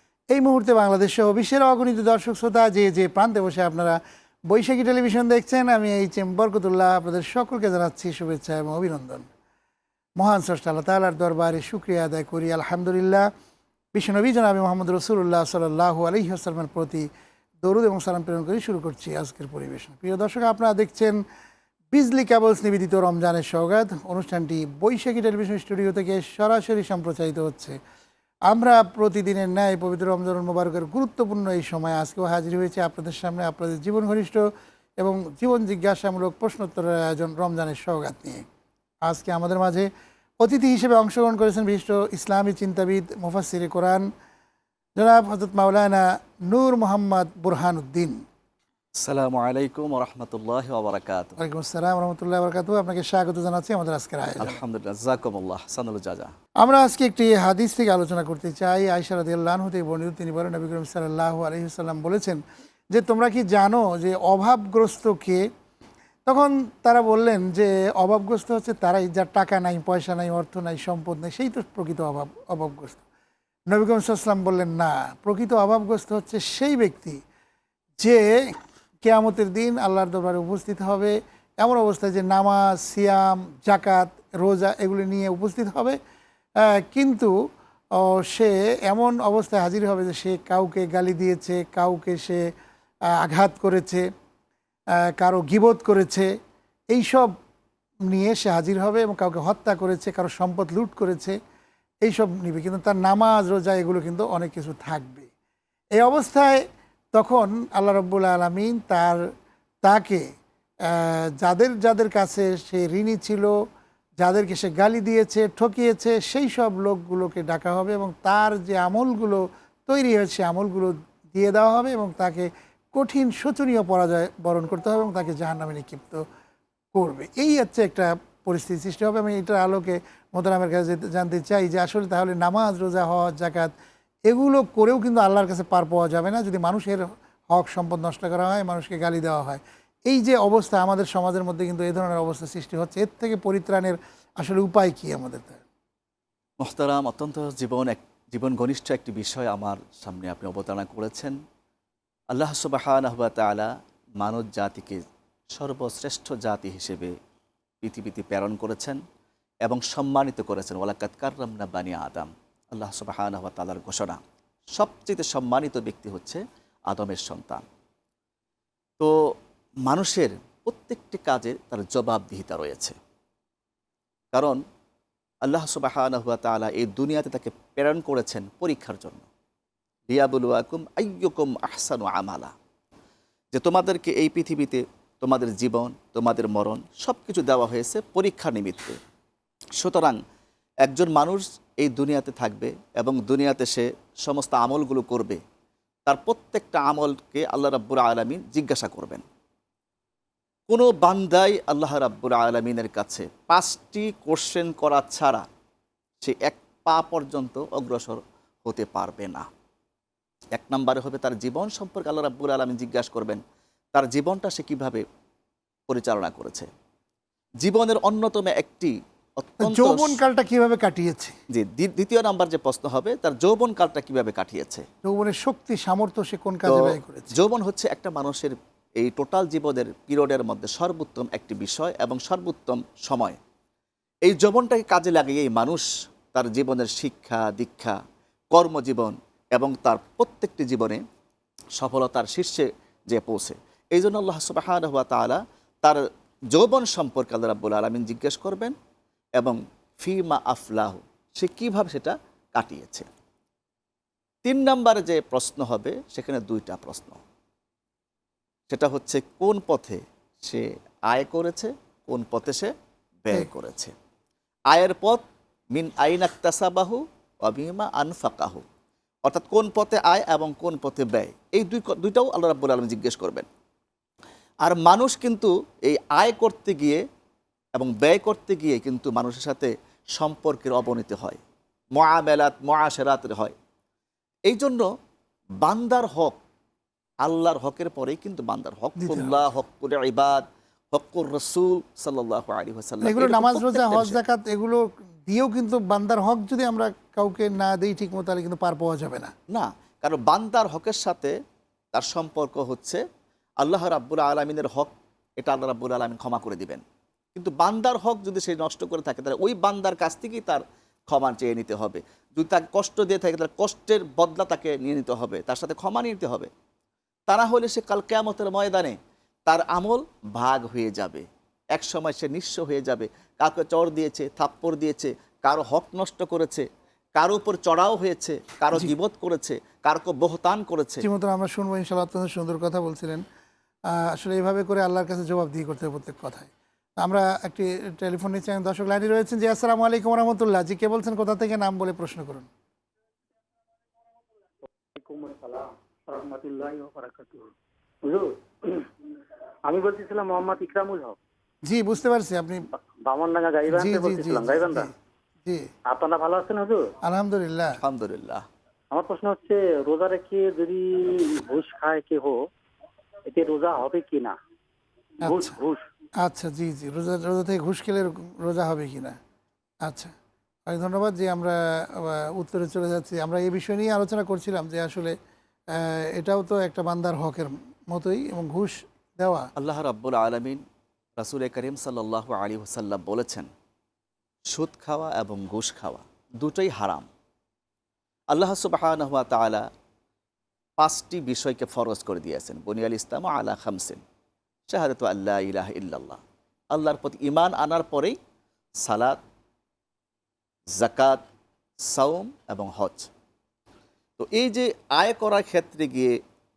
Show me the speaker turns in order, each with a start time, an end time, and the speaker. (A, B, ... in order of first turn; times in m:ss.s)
0:00.3-0:09.3 A
0:10.2-0:13.3 A
0:13.9-0:17.1 A
0:17.6-0:21.2 A
0:21.9-0:27.8 A
0:28.5-0:34.4 A
0:35.0-0:38.4 A
0:39.1-0:39.9 A
0:40.4-0:44.1 A
0:45.0-0:48.2 A
0:49.0-0:51.4 B
0:51.4-0:54.6 A
0:54.4-0:56.3 B
0:56.6-1:02.4 A
1:02.9-1:05.4 A
1:06.3-1:13.0 A
1:13.7-1:17.2 A
1:18.0-1:18.3 A
1:19.0-1:26.0 A
1:26.6-1:27.3 A
1:28.0-1:32.4 A
1:33.2-1:34.0 A
1:35.1-1:36.3 A
1:36.9-1:37.3 A
1:38.1-1:41.4 A
1:42.0-1:45.3 A
1:46.0-1:46.6 A
1:47.1-1:49.2 A
1:49.8-1:50.2 A
1:50.9-1:53.5 A
1:54.2-2:06.2 A
2:06.9-2:13.7 A
2:14.3-2:25.6 A
2:26.6-2:31.4 B
2:32.3-2:33.7 B
2:34.2-2:35.0 B
2:35.5-2:37.1 B
2:37.8-2:39.0 B
2:39.7-2:44.2 B
2:44.8-2:47.6 B
2:49.9-2:53.0 B
2:54.3-2:54.6 B
2:55.5-2:59.2 B
3:00.1-3:02.5 B
3:03.5-3:09.0 B
3:09.8-3:10.2 B
3:10.8-3:15.4 B
3:16.1-3:19.2 B
3:20.7-3:25.5 B
3:26.2-3:29.5 B
3:30.6-3:33.4 B
3:34.0-3:35.0 B
3:35.9-3:36.7 B
3:37.6-3:40.2 B
3:39.6-3:41.4 A
3:41.5-3:44.8 B
3:45.0-3:47.3 A
3:46.7-3:53.4 B
3:54.3-3:58.0 B
3:58.5-4:01.0 B
4:01.8-4:06.0 B
4:06.5-4:08.8 B
4:09.4-4:13.1 B
4:14.4-4:17.2 B
4:18.7-4:22.7 B
4:23.2-4:23.9 B
4:24.7-4:25.2 B
4:25.7-4:28.6 B
4:29.3-4:33.5 B
4:34.6-4:37.0 B
4:37.8-4:41.4 B
4:42.0-4:43.5 B
4:44.5-4:44.9 B
4:45.6-4:46.4 B
4:47.2-4:54.2 B
4:49.0-4:49.5 A
4:53.0-4:59.3 A
4:59.5-5:01.3 B
5:01.9-5:03.0 B
5:03.6-5:06.8 B
5:07.4-5:16.5 B
5:17.3-5:19.0 B
5:19.5-5:31.1 B
5:31.0-5:33.2 A
5:34.0-5:42.5 A
5:45.0-5:47.5 C
5:49.7-5:51.2 C
5:51.7-5:52.7 A
5:53.0-5:54.9 C
5:53.7-5:54.9 A
5:55.9-5:56.9 C
5:57.0-5:57.8 A
5:57.8-5:58.4 B
5:58.9-6:02.4 C
6:03.3-6:04.4 C
6:05.2-6:05.6 A
6:05.3-6:05.8 C
6:06.2-6:09.2 A
6:09.8-6:10.1 A
6:10.7-6:15.1 A
6:15.8-6:19.5 A
6:19.6-6:20.6 B
6:21.2-6:23.5 B
6:24.5-6:27.1 B
6:28.3-6:29.7 B
6:30.8-6:34.0 B
6:34.7-6:36.2 B
6:36.7-6:38.2 B
6:38.8-6:39.2 B
6:40.8-6:41.2 B
6:41.9-6:43.1 B
6:44.2-6:46.1 B